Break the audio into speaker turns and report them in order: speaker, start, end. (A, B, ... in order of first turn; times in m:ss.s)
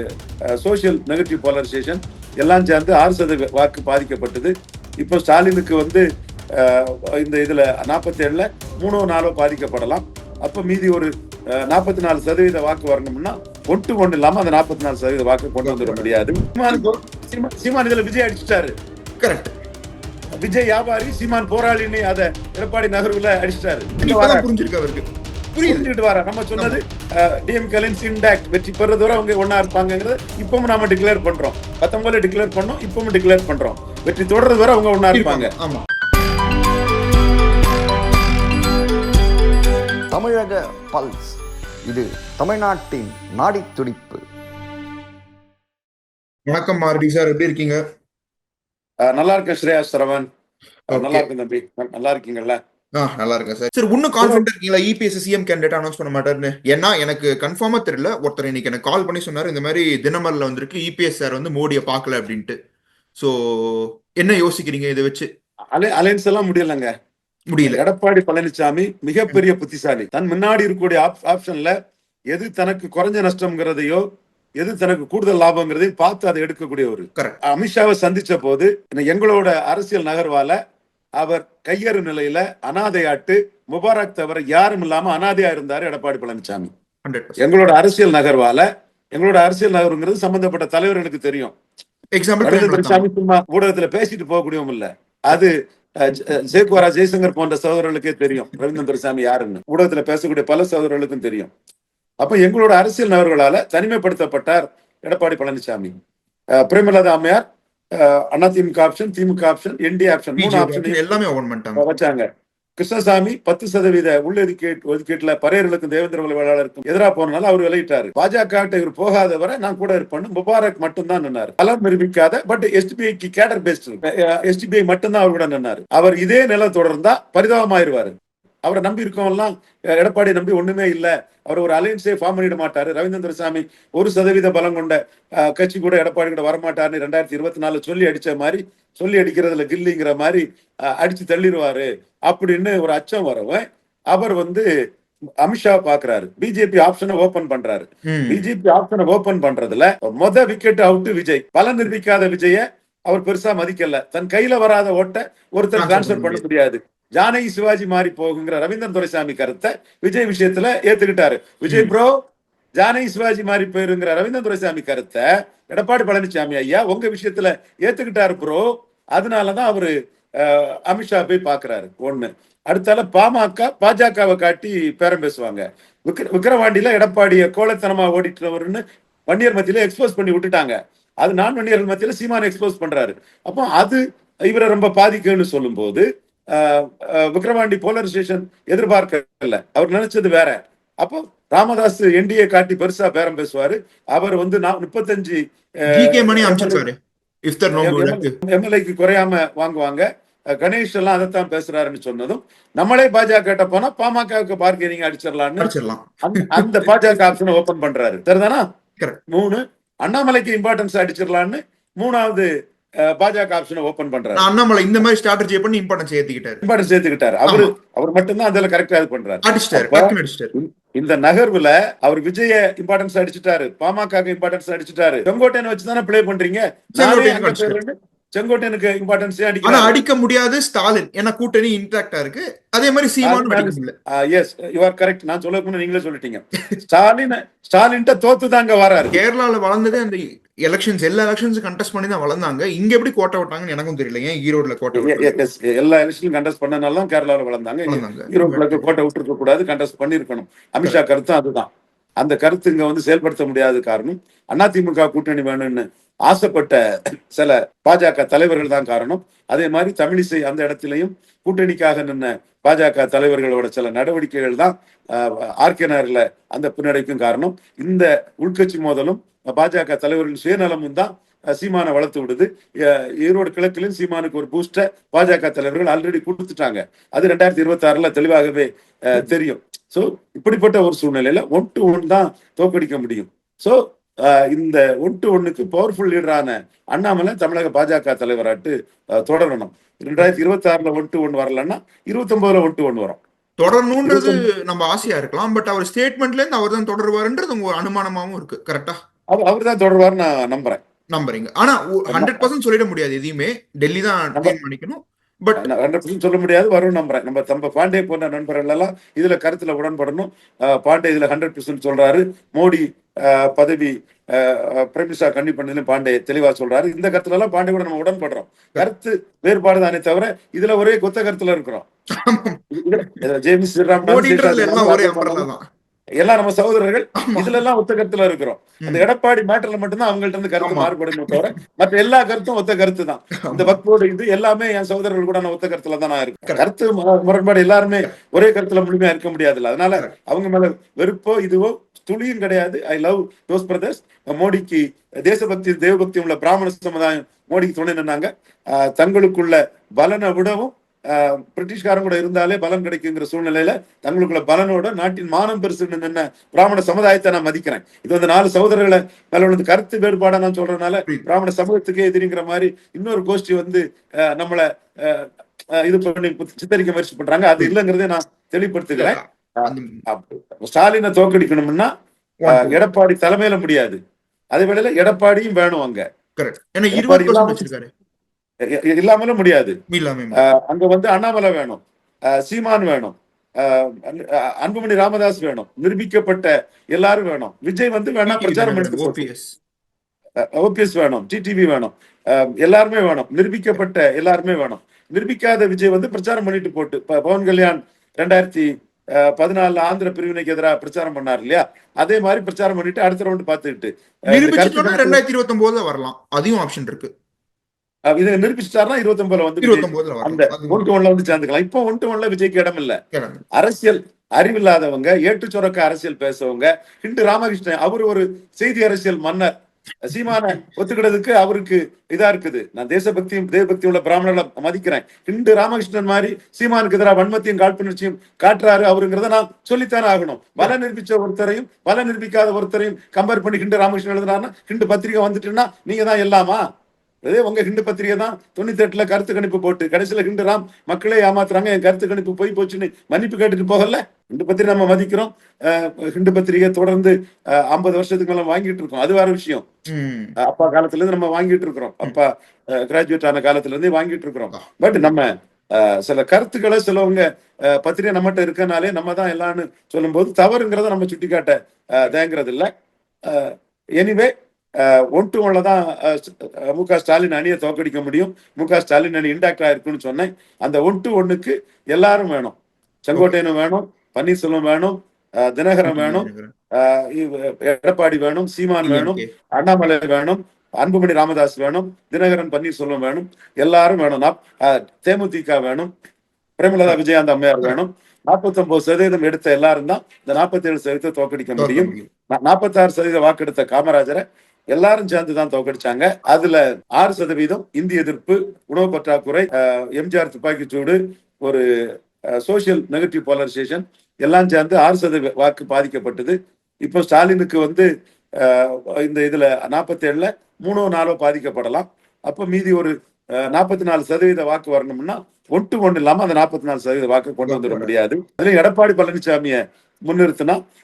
0:00.5-0:06.0 A
0:06.6-0:18.7 A
0:15.6-0:16.1 B
0:16.7-0:17.0 B
0:19.2-0:19.5 B
0:20.4-0:24.4 A
0:24.0-0:25.9 B
0:25.6-0:35.5 A
0:35.1-0:35.8 B
0:40.1-0:44.2 C
0:46.5-0:47.8 B
0:49.0-0:50.3 A
0:50.9-0:51.3 B
0:50.9-0:52.6 A
0:53.0-1:02.6 B
0:54.2-0:54.4 A
1:03.2-1:05.3 B
1:05.7-1:06.9 A
1:07.5-1:07.8 B
1:07.6-1:11.8 A
1:12.3-1:14.0 A
1:14.6-1:20.6 A
1:21.2-1:26.7 A
1:27.0-1:27.4 B
1:27.4-1:31.5 A
1:32.1-1:33.1 B
1:32.4-1:35.5 A
1:36.0-1:41.5 A
1:42.2-1:45.9 A
1:46.6-1:47.4 A
1:48.0-1:51.0 A
1:50.4-1:51.9 B
1:51.8-1:52.3 A
1:52.8-2:24.7 A
2:25.4-2:42.1 A
2:28.0-2:28.4 B
2:35.8-2:36.4 B
2:42.8-3:16.8 A
3:15.9-3:18.3 B
3:17.8-3:20.1 A
3:20.6-3:25.7 A
3:25.6-3:27.2 B
3:26.2-3:28.6 A
3:29.3-3:32.5 A
3:33.0-3:34.4 A
3:34.4-3:36.6 B
3:36.6-3:50.0 A
3:37.5-3:37.7 B
3:39.4-3:40.5 B
3:46.9-3:47.8 B
3:49.6-3:53.9 B
3:53.2-3:59.2 A
3:59.1-4:05.3 B
4:04.9-4:11.7 A
4:07.9-4:08.8 B
4:12.2-4:16.8 A
4:17.3-4:53.2 A
4:53.6-4:59.0 B
4:54.0-4:54.4 A
4:59.3-5:00.8 A
5:01.1-5:05.7 B
5:02.1-5:02.5 A
5:05.6-5:21.8 A
5:22.1-5:22.6 B
5:22.7-5:25.5 A
5:24.1-5:25.6 B
5:26.2-6:05.3 A
5:27.2-5:27.5 B
5:30.6-5:31.5 B
5:33.4-5:33.8 B
6:05.8-6:11.9 A
6:08.9-6:10.0 B
6:12.4-6:12.8 B
6:12.5-6:14.0 A
6:14.5-6:16.1 A
6:16.4-6:17.9 B
6:16.9-6:17.7 A
6:18.7-6:19.8 A
6:19.9-6:20.4 B
6:20.3-6:21.8 A
6:22.3-6:29.2 A
6:28.3-6:29.6 B
6:30.4-6:45.2 A
6:44.3-6:47.1 B
6:48.1-6:53.0 A
6:49.6-6:50.8 B
6:53.1-6:53.4 B
6:53.6-6:59.5 A
7:00.0-7:16.6 A
7:17.2-7:29.6 A
7:29.9-7:30.3 B
7:30.4-7:42.7 A
7:43.2-7:52.6 A
7:53.1-8:05.9 A
7:55.8-7:56.5 B
7:58.8-7:59.3 B
8:06.6-8:21.6 A
8:11.6-8:12.1 B
8:22.4-8:27.9 A
8:28.4-8:40.6 A
8:37.4-8:37.9 B